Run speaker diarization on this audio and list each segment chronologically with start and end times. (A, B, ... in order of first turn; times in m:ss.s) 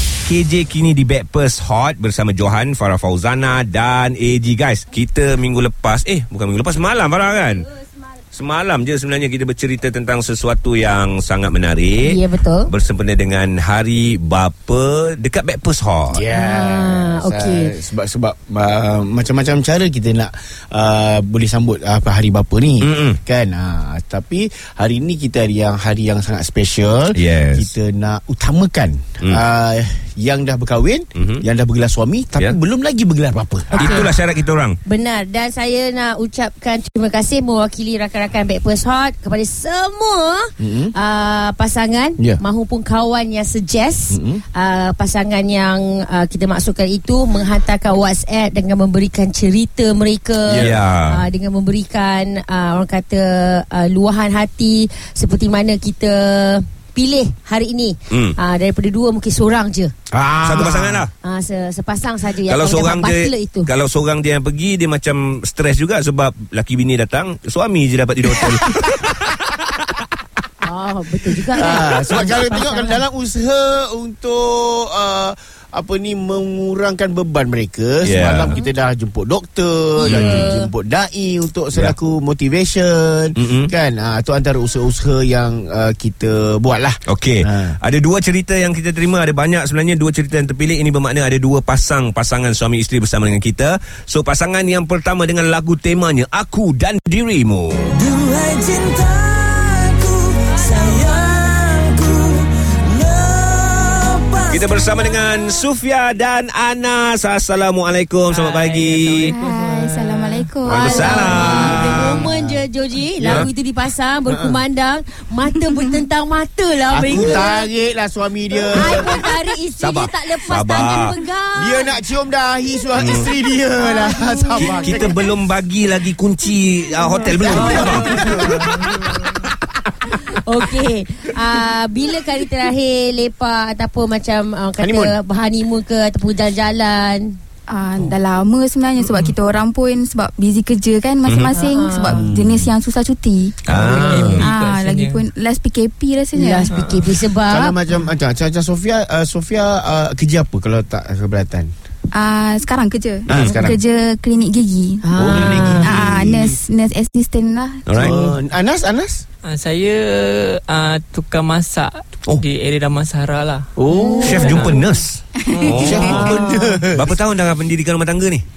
0:00.3-0:07.7 A
0:08.3-0:16.2 A
0:12.0-0:12.7 B
0:16.1-0:34.1 C
0:16.3-0:17.7 B
0:22.8-0:23.2 A
0:27.1-0:27.7 A
0:31.2-0:31.4 A
0:33.7-0:34.8 A
0:33.7-0:34.1 B
0:34.8-0:59.9 B
0:40.6-0:40.9 C
0:44.1-0:44.4 C
0:50.5-0:50.8 C
0:50.6-0:51.2 A
0:58.1-0:58.4 A
1:00.1-1:01.0 C
1:00.4-1:01.1 A
1:01.2-1:03.7 B
1:02.5-1:09.9 A
1:08.3-1:10.0 C
1:10.6-1:13.0 B
1:11.5-1:27.8 C
1:18.0-1:18.6 A
1:20.0-1:20.7 B
1:20.0-1:20.5 A
1:23.4-1:23.7 A
1:27.1-1:37.9 A
1:37.9-1:45.2 D
1:44.5-1:49.3 A
1:48.3-1:50.6 E
1:49.2-1:52.1 F
1:50.6-1:52.2 A
1:50.8-1:57.6 B
1:50.9-1:52.6 C
1:53.2-1:53.5 C
1:53.2-1:53.5 A
1:54.3-1:54.6 C
1:56.9-1:59.2 C
1:58.7-2:02.0 B
1:59.8-2:01.1 A
2:01.6-2:05.2 C
2:03.0-2:03.3 A
2:03.8-2:05.1 B
2:04.6-2:08.3 A
2:07.2-2:08.9 C
2:07.2-2:09.1 E
2:07.2-2:09.5 B
2:10.1-2:17.4 B
2:14.8-2:15.1 C
2:17.7-2:26.7 F
2:19.0-2:19.3 E
2:21.3-2:21.5 A
2:21.5-2:22.2 B
2:22.1-2:22.7 C
2:23.7-2:24.5 A
2:23.7-2:25.2 E
2:26.3-2:27.8 B
2:26.7-2:27.2 E
2:27.5-2:31.7 C
2:32.1-2:38.2 F
2:33.3-2:33.8 C
2:33.3-2:33.7 A
2:35.0-2:35.9 B
2:35.2-2:36.6 C
2:37.9-2:38.2 A
2:38.0-2:39.2 C
2:39.5-2:43.7 E
2:43.8-2:44.7 C
2:43.9-2:44.8 F
2:43.9-2:44.5 B
2:44.2-2:46.4 A
2:44.4-2:44.8 E
2:45.4-2:46.8 F
2:45.5-2:46.1 E
2:45.7-2:47.1 C
2:46.1-2:46.6 B
2:46.9-2:48.4 A